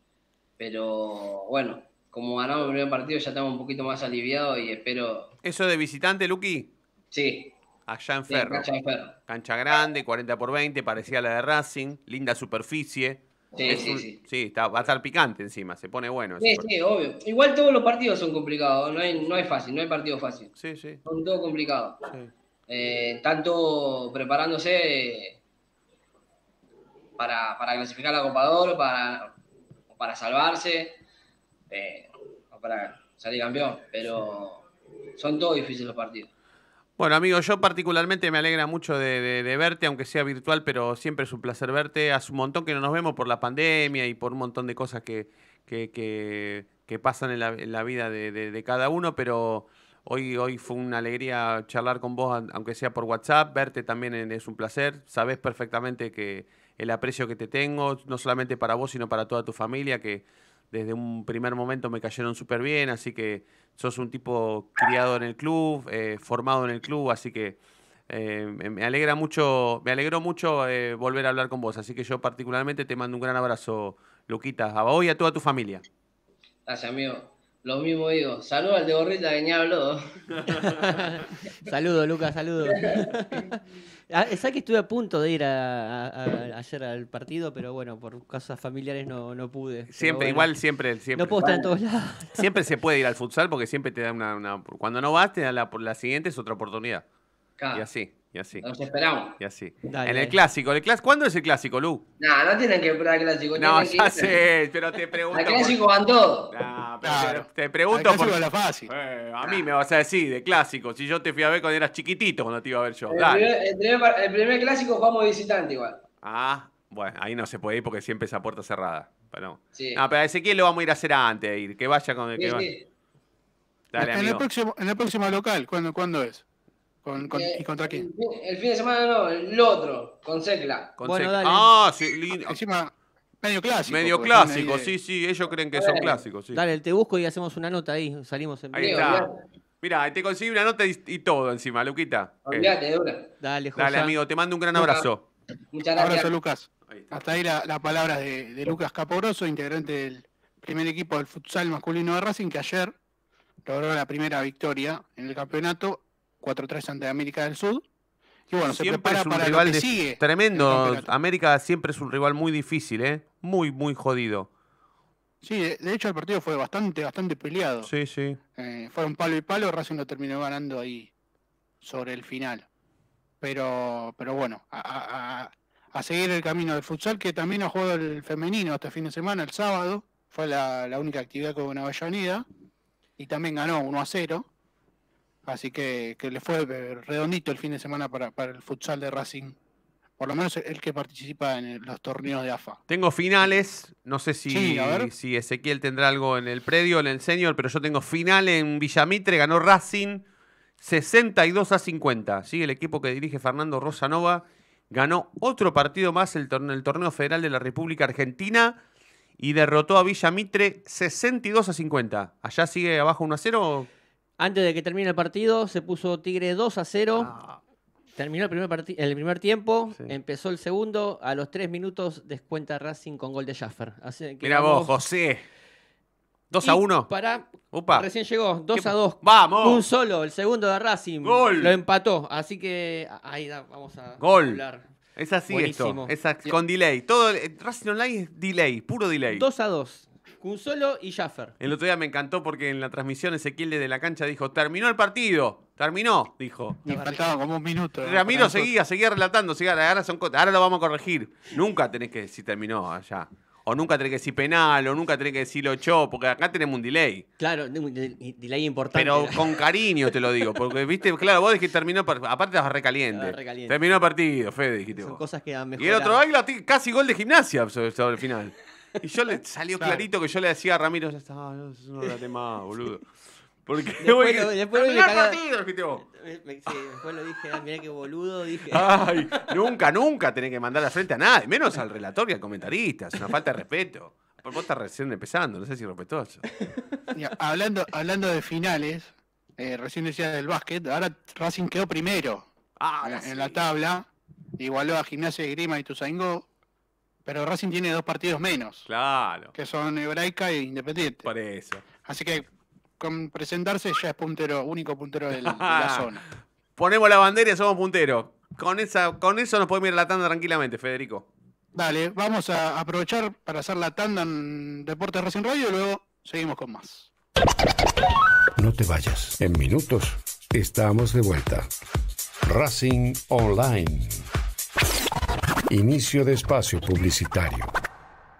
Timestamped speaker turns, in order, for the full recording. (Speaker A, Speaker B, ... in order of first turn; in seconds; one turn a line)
Speaker A: 0.6-5.3
Speaker B: 5.4-6.7
Speaker A: 7.1-7.5
Speaker B: 7.9-8.7
Speaker A: 8.3-9.2
Speaker B: 9.3-16.7
Speaker A: 13.5-14.2
Speaker A: 16.4-20.5
Speaker B: 20.6-21.0
Speaker A: 21.0-22.1
Speaker B: 22.1-22.3
Speaker A: 22.7-25.4
Speaker A: 27.2-29.3
Speaker A: 29.9-31.0
Speaker A: 31.7-36.3
Speaker B: 37.0-75.8
Speaker A: 76.7-80.6
Speaker B: 80.5-80.7
Speaker C: 80.8-90.5
Speaker B: 89.9-91.6
Speaker C: 91.1-92.4
Speaker B: 92.3-97.0
Speaker A: 97.6-97.9
Speaker B: 97.7-98.6
Speaker A: 98.6-99.4
Speaker B: 99.4-102.0
Speaker C: 99.9-100.4
Speaker A: 102.2-104.4
Speaker B: 103.5-105.8
Speaker A: 105.3-106.6
Speaker B: 106.5-113.5
Speaker D: 107.0-108.9
Speaker A: 113.1-116.0
Speaker B: 116.2-122.7
Speaker A: 119.7-120.0
Speaker A: 122.4-122.8
Speaker B: 123.9-124.4
Speaker D: 124.0-126.4
Speaker D: 127.0-128.1
Speaker A: 127.3-130.9
Speaker B: 131.0-132.6
Speaker C: 131.0-131.7
Speaker D: 132.3-134.9
Speaker B: 133.9-136.6
Speaker A: 135.7-136.2
Speaker C: 136.5-139.1
Speaker B: 138.7-139.3
Speaker A: 138.8-139.4
Speaker B: 139.8-142.7
Speaker A: 142.4-143.3
Speaker C: 143.4-144.2
Speaker B: 143.8-145.2
Speaker A: 144.7-145.1
Speaker A: 145.7-146.3
Speaker D: 145.9-152.9
Speaker D: 153.6-157.8
Speaker D: 158.5-161.1
Speaker B: 158.6-164.5
Speaker D: 165.4-167.9
Speaker B: 167.8-168.4
Speaker D: 168.6-171.1
Speaker D: 171.8-172.7
Speaker D: 173.4-182.4
Speaker D: 183.2-184.5
Speaker D: 185.4-189.6
Speaker D: 190.2-192.8
Speaker B: 192.9-200.2
Speaker D: 194.5-195.1
Speaker B: 200.8-208.8
Speaker B: 209.4-213.9
Speaker C: 214.4-217.3
Speaker B: 217.2-217.6
Speaker C: 218.2-225.0
Speaker B: 224.4-225.4
Speaker B: 226.5-227.1
Speaker C: 226.6-234.9
Speaker B: 227.7-228.1
Speaker B: 228.7-229.8
Speaker B: 231.2-231.8
Speaker B: 234.2-234.6
Speaker B: 235.1-239.4
Speaker C: 235.5-236.1
Speaker C: 239.3-241.6
Speaker B: 241.6-246.8
Speaker D: 246.8-248.7
Speaker C: 246.9-247.2
Speaker B: 248.0-257.2
Speaker C: 257.4-259.6
Speaker B: 258.9-265.2
Speaker C: 263.1-264.0
Speaker C: 265.0-266.2
Speaker B: 265.8-273.1
Speaker D: 269.8-270.1
Speaker B: 273.6-276.1
Speaker C: 274.0-275.4
Speaker C: 276.1-278.9
Speaker B: 278.7-286.4
Speaker D: 287.1-292.5
Speaker B: 292.8-293.6
Speaker D: 293.0-296.5
Speaker D: 297.2-298.9
Speaker B: 298.9-299.5
Speaker D: 299.5-301.3
Speaker B: 301.2-301.8
Speaker D: 302.0-302.5
Speaker D: 303.0-306.2
Speaker B: 305.4-306.1
Speaker B: 306.8-311.3
Speaker D: 311.7-317.1
Speaker E: 318.6-321.7
Speaker E: 322.4-324.2
Speaker E: 325.7-327.7